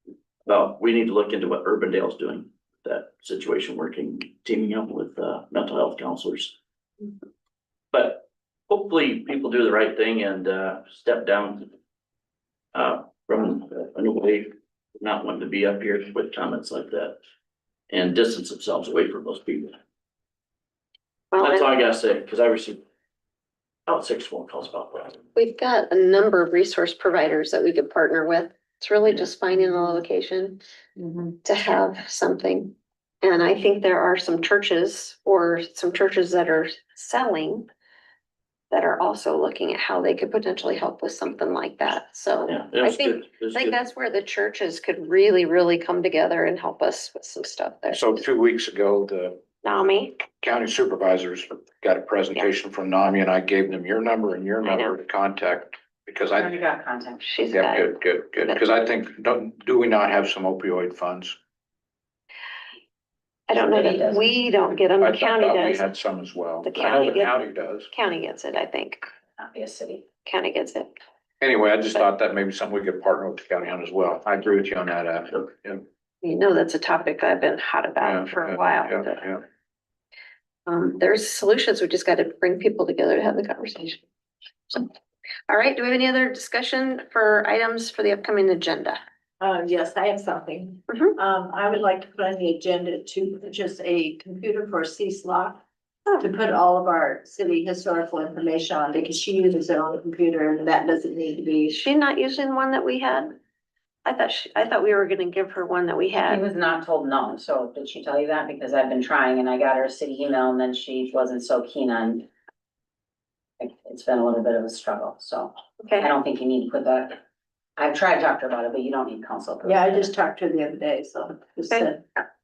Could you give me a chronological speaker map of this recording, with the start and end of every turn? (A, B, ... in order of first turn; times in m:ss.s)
0:00.4-0:06.5 A
0:07.9-0:11.7 A
0:12.7-0:17.2 A
0:17.9-0:19.8 A
0:21.3-0:21.7 B
0:21.4-0:22.8 A
0:23.9-0:25.2 A
0:25.4-0:30.6 B
0:31.4-0:37.7 B
0:38.7-0:48.2 B
0:42.5-0:43.8 A
0:47.9-0:49.4 C
0:49.6-0:50.2 B
0:50.3-0:56.6 C
0:54.6-0:55.0 B
0:56.4-0:57.3 D
0:57.2-0:58.6 B
0:57.5-1:01.4 C
1:03.5-1:05.9 B
1:03.5-1:04.4 D
1:05.0-1:07.9 C
1:06.6-1:07.4 B
1:07.9-1:09.0 B
1:09.4-1:10.1 D
1:10.1-1:10.9 B
1:11.4-1:15.8 C
1:16.2-1:19.4 B
1:18.0-1:19.4 C
1:20.7-1:24.0 B
1:25.5-1:29.0 B
1:29.4-1:35.6 E
1:36.2-1:41.8 E
1:41.7-1:43.4 B
1:44.0-1:46.4 B
1:46.2-1:52.3 D
1:53.6-1:57.2 D
1:55.8-1:56.1 B
1:57.8-2:00.1 D
1:59.6-2:02.0 E